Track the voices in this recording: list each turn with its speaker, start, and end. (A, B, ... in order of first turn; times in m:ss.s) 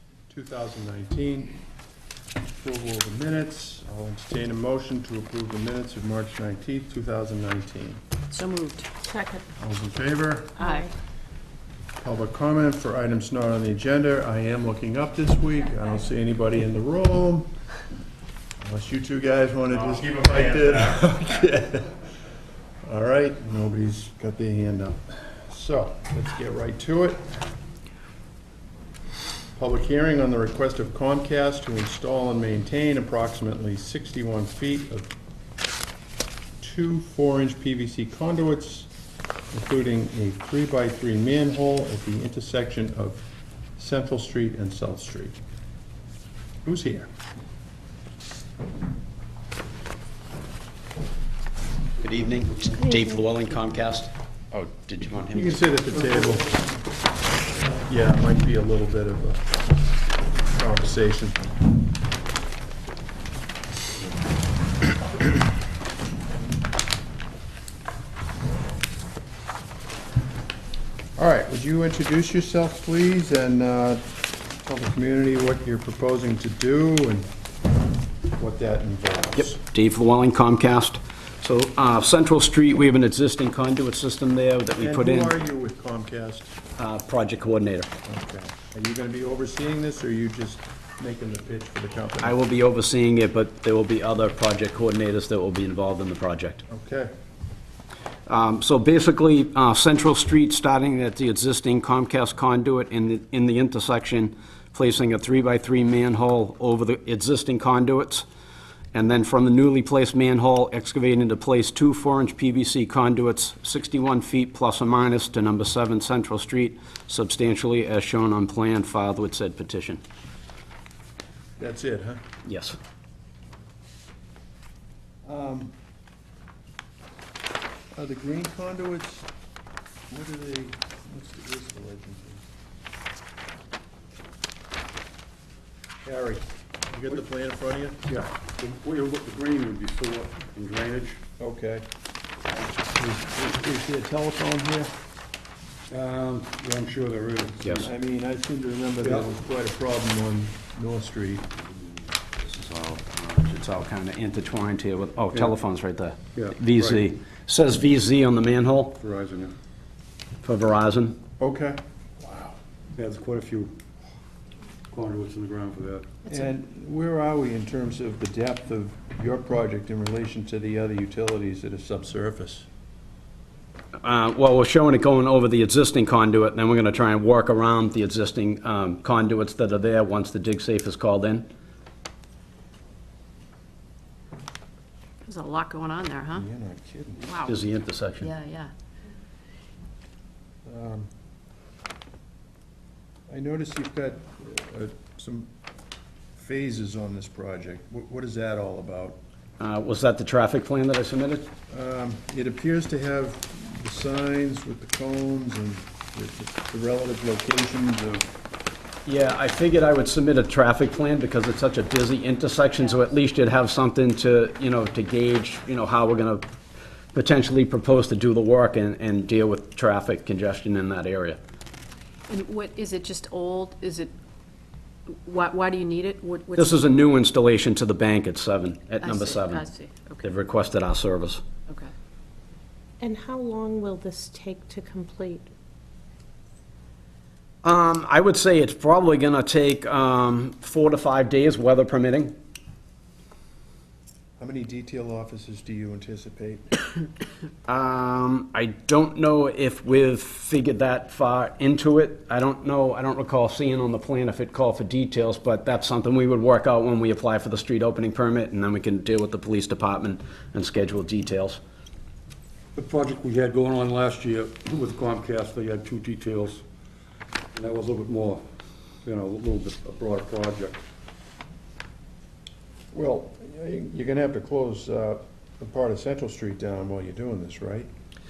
0:00.3-0:01.6 A
0:02.6-0:08.0 A
0:08.3-0:08.9 B
0:09.0-0:09.4 C
0:09.6-0:10.6 A
0:10.6-0:10.9 B
0:10.6-0:10.9 C
0:12.0-0:17.5 A
0:18.6-0:22.0 A
0:22.8-0:27.2 A
0:29.6-0:35.1 A
0:36.6-0:38.9 A
0:39.5-0:43.2 A
0:43.8-0:45.4 A
0:46.6-0:47.1 A
0:52.0-0:55.6 D
0:55.3-0:56.6 A
0:57.8-0:59.5 A
1:00.5-1:01.4 A
1:11.2-1:14.0 A
1:14.6-1:17.3 A
1:18.3-1:19.6 A
1:19.5-1:25.4 D
1:24.7-1:26.6 A
1:26.8-1:27.9 D
1:28.0-1:32.4 A
1:32.2-1:36.6 D
1:36.7-1:37.1 A
1:38.3-1:48.3 D
1:48.9-2:00.0 D
2:01.6-2:02.2 A
2:02.4-2:02.8 D
2:05.2-2:05.7 A
2:08.0-2:09.3 A
2:10.1-2:12.4 A
2:16.0-2:18.1 A
2:18.1-2:21.2 E
2:21.4-2:21.9 A
2:22.6-2:24.9 A
2:25.9-2:27.9 E
2:27.8-2:31.5 A
2:29.0-2:29.3 E
2:32.4-2:39.0 D
2:36.4-2:36.8 E
2:39.0-2:39.5 E
2:40.4-2:41.2 D
2:41.4-2:42.6 A
2:43.0-2:43.7 E
2:44.9-2:46.1 E
2:46.2-2:52.7 A
2:54.0-3:01.5 D
3:05.2-3:06.5 B
3:06.3-3:07.3 A
3:07.2-3:07.6 B
3:07.5-3:08.3 D
3:08.2-3:08.7 B
3:10.6-3:11.1 A
3:13.3-3:15.5 A
3:16.4-3:19.2 A
3:19.6-3:21.5 D
3:21.7-3:28.3 A
3:29.1-3:36.5 D
3:37.1-3:41.4 D
3:42.3-3:44.1 B
3:45.2-3:46.8 B
3:46.6-3:49.7 D
3:49.0-3:50.3 B
3:50.2-3:51.4 D
3:53.0-3:55.5 C
3:57.6-4:02.3 D
4:04.4-4:06.8 A
4:07.7-4:21.6 D
4:22.8-4:26.6 E
4:27.6-4:28.4 E
4:29.0-4:30.8 E
4:32.9-4:37.9 A